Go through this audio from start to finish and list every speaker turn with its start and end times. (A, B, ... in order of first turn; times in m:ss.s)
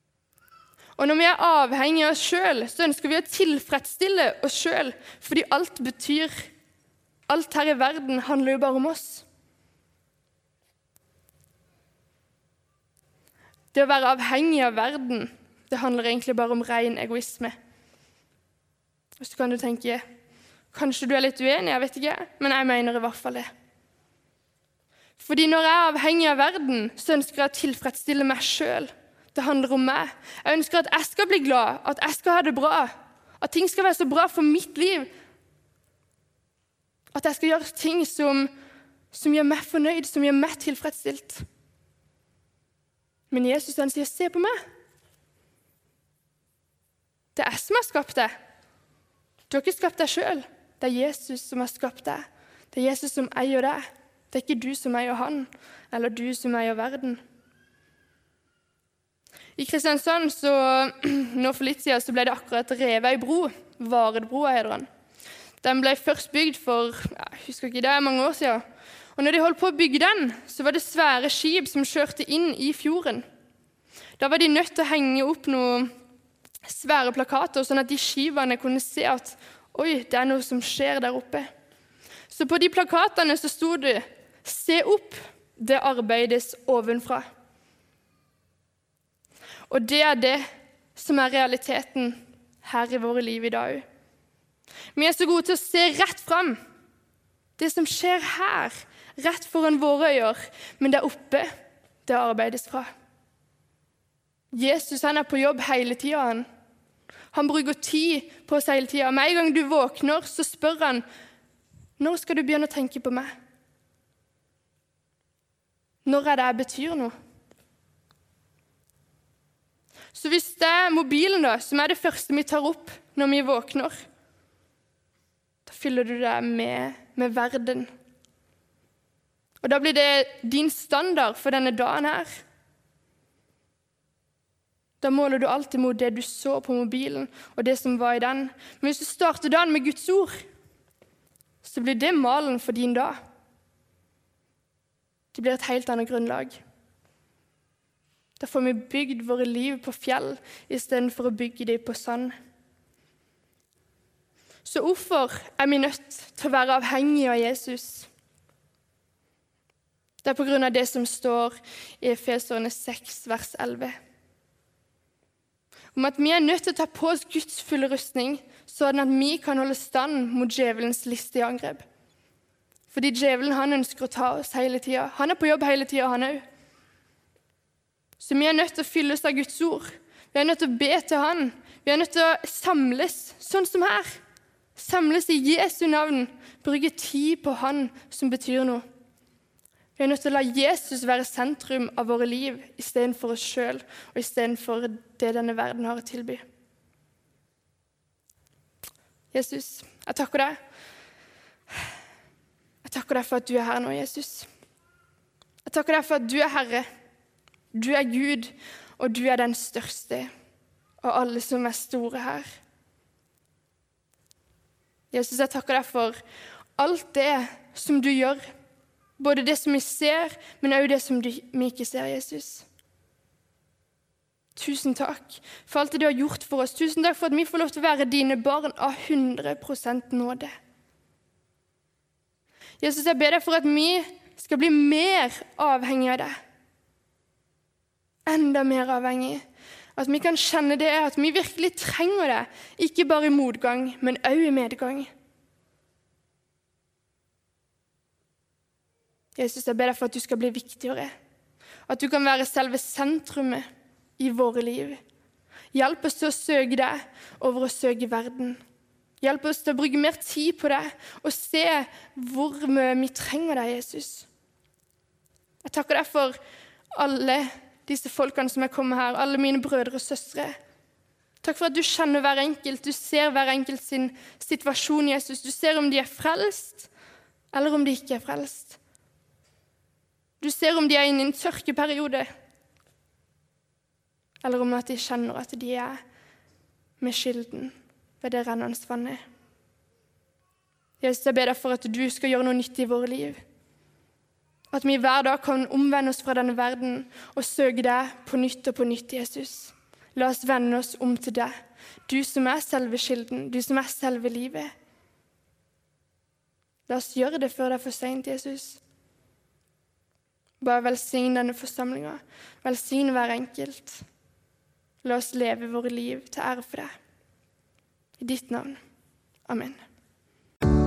0:01.0-0:06.5 A
0:07.3-0:09.2 A
0:13.7-0:17.6 A
0:19.2-0:20.0 A
0:20.7-0:23.5 A
0:25.2-0:35.1 A
0:37.1-0:38.5 A
0:39.1-0:41.4 A
0:43.3-0:44.6 A
0:47.4-0:48.3 A
0:49.5-0:57.2 A
0:59.6-1:04.9 A
1:05.6-1:08.6 A
1:09.2-1:13.2 A
1:14.2-1:15.9 A
1:16.6-1:21.5 A
1:22.3-1:27.3 A
1:29.7-1:30.4 A
1:31.0-1:33.8 A
1:35.0-1:36.6 A
1:37.6-1:41.5 A
1:42.1-1:42.9 A
1:44.5-1:46.5 A
1:47.3-1:51.0 A
1:52.0-1:53.3 A
1:56.0-1:57.1 A
2:00.1-2:04.0 A
2:05.7-2:07.9 A
2:09.6-2:12.3 A
2:15.0-2:20.4 A
2:21.6-2:23.2 A
2:25.3-2:26.6 A
2:28.4-2:32.3 A
2:34.6-2:38.1 A
2:40.2-2:43.9 A
2:45.9-2:51.8 A
2:52.9-2:56.4 A
2:58.2-3:04.2 A
3:04.8-3:08.8 A
3:10.0-3:16.4 A
3:19.3-3:20.6 A
3:22.8-3:24.5 A
3:25.6-3:26.9 A
3:27.7-3:30.3 A
3:31.0-3:32.5 A
3:35.1-3:36.2 A
3:36.8-3:38.4 A
3:39.2-3:42.7 A
3:44.6-3:50.5 A
3:52.8-3:56.3 A
3:58.3-3:59.4 A
4:00.0-4:05.1 A
4:09.4-4:11.1 A
4:11.9-4:13.7 A
4:14.2-4:15.0 A
4:15.7-4:18.6 A
4:19.2-4:24.3 A
4:25.6-4:26.4 A
4:26.9-4:30.6 A
4:31.4-4:36.9 A
4:37.5-4:38.8 A
4:40.4-4:42.3 A
4:44.4-4:46.0 A
4:47.0-4:49.2 A
4:51.0-4:53.4 A
4:54.7-5:01.5 A
5:02.1-5:04.7 A
5:06.9-5:08.8 A
5:10.6-5:14.0 A
5:15.0-5:16.9 A
5:18.2-5:18.8 A
5:19.5-5:19.8 A